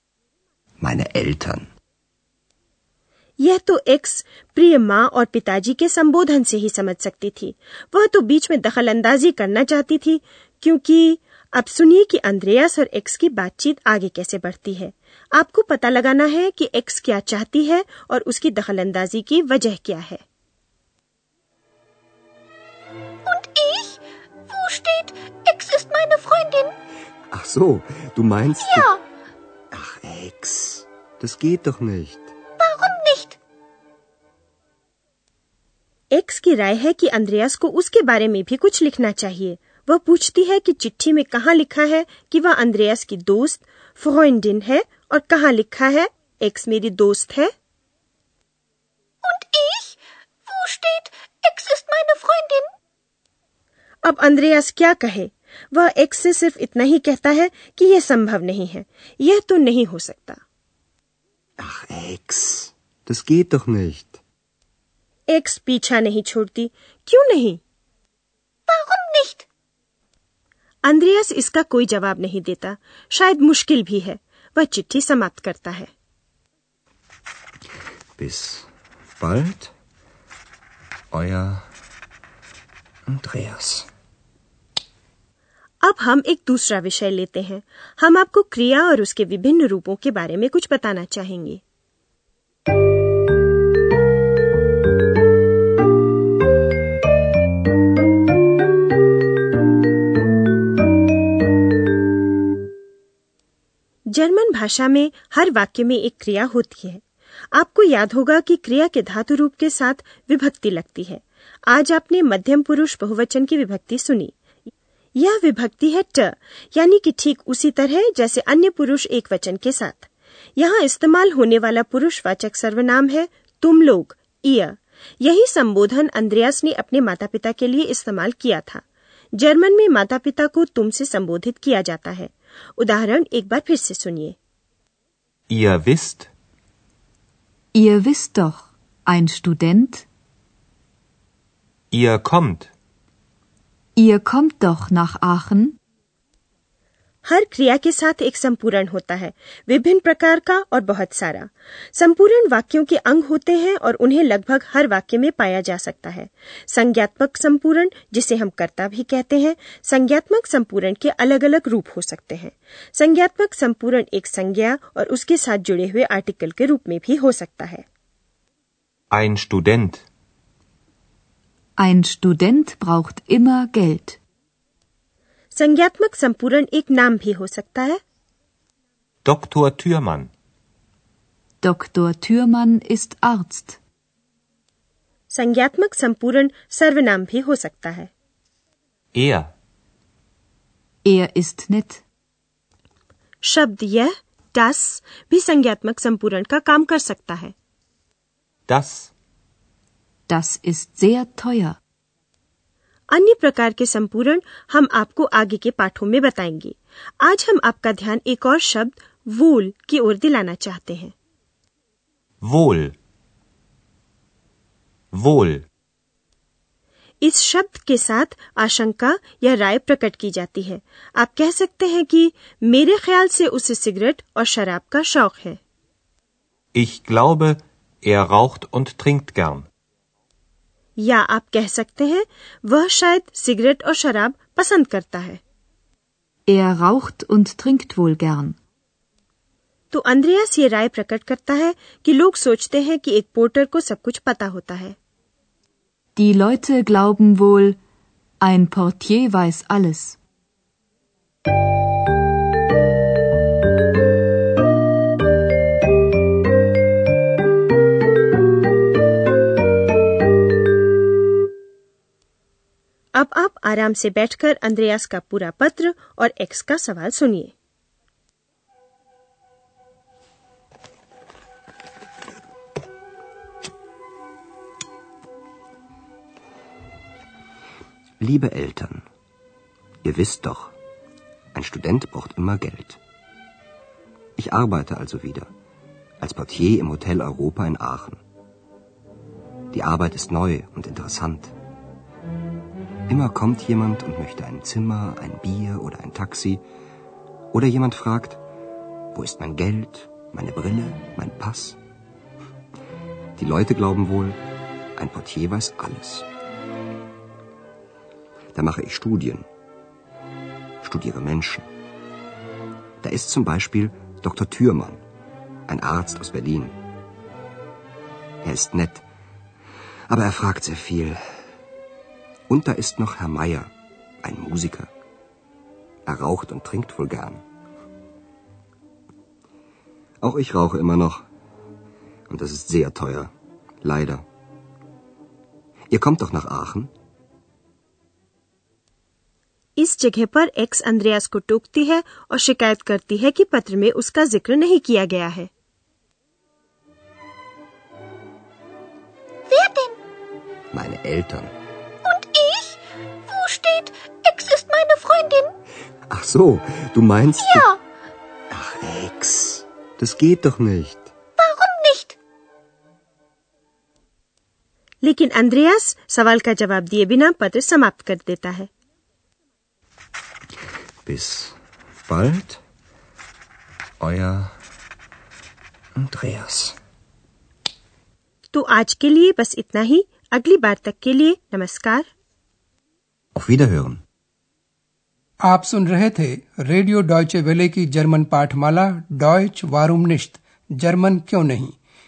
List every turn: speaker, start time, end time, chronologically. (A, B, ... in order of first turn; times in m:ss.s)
0:00.8-0:01.7 A
0:03.4-0:20.2 B
0:23.3-0:23.9 C
0:24.5-0:26.7 C
0:27.3-0:28.9 A
0:28.7-0:29.0 C
0:29.7-0:32.3 A
0:32.6-0:33.4 C
0:36.1-0:47.5 B
0:49.3-0:49.9 C
0:50.5-0:52.7 C
0:54.0-1:00.4 B
1:01.6-1:04.2 A
1:05.3-1:07.6 B
1:08.7-1:09.4 C
1:10.8-1:15.9 B
1:18.2-1:18.7 A
1:19.2-1:19.7 A
1:21.1-1:21.7 A
1:23.1-1:23.9 A
1:25.8-1:31.6 B
1:44.1-1:47.0 B
1:47.5-1:54.3 B
1:55.2-2:08.8 B
2:09.4-2:14.4 B
2:15.5-2:16.3 D
2:17.7-2:20.1 E
2:21.9-2:22.7 D
2:24.0-2:25.8 E
2:27.3-2:47.8 B
2:49.1-2:50.0 D
2:51.8-2:54.2 E
2:55.5-2:58.0 B
2:59.2-3:00.3 D
3:01.6-3:03.8 E
3:05.3-3:08.1 B
3:09.1-3:09.5 D
3:11.0-3:12.0 E
3:13.4-3:17.5 B
3:18.7-3:19.1 D
3:20.3-3:21.8 E
3:23.1-3:31.1 B
3:32.4-3:33.0 D
3:35.1-3:35.6 D
3:37.2-3:45.6 B
3:46.7-3:49.7 D
3:51.0-3:55.4 B
3:56.5-3:58.6 E
3:59.9-4:05.0 B
4:06.2-4:07.8 E
4:08.4-4:10.2 E
4:23.2-4:27.5 B
4:38.2-4:39.0 A
4:40.0-4:40.8 A
4:41.5-4:43.0 A
4:44.4-4:45.5 A
4:46.2-4:48.2 A
4:49.7-4:51.5 A
4:53.1-4:56.6 A
4:57.5-4:58.4 A
4:59.2-5:01.8 A
5:03.4-5:04.4 A
5:05.0-5:06.3 A
5:08.5-5:09.4 A
5:10.8-5:11.7 A
5:13.0-5:15.0 A
5:15.7-5:16.8 A
5:18.4-5:19.0 A
5:20.1-5:21.2 A
5:22.5-5:23.7 A
5:24.2-5:24.9 A
5:26.1-5:27.4 A
5:30.2-5:31.2 A
5:32.3-5:33.3 A
5:33.8-5:34.2 A
5:35.9-5:36.9 A
5:39.8-5:45.5 B
5:49.5-5:50.0 C
5:50.7-5:51.5 A
5:52.1-5:52.8 C
5:53.3-5:55.5 C
5:56.1-5:57.7 A
5:58.5-6:01.1 A
6:01.4-6:02.2 C
6:05.0-6:08.7 B
6:11.1-6:11.6 A
6:12.1-6:12.6 A
6:14.0-6:14.6 A
6:16.0-6:16.8 A
6:18.5-6:22.1 B
6:23.4-6:24.0 A
6:25.4-6:31.8 F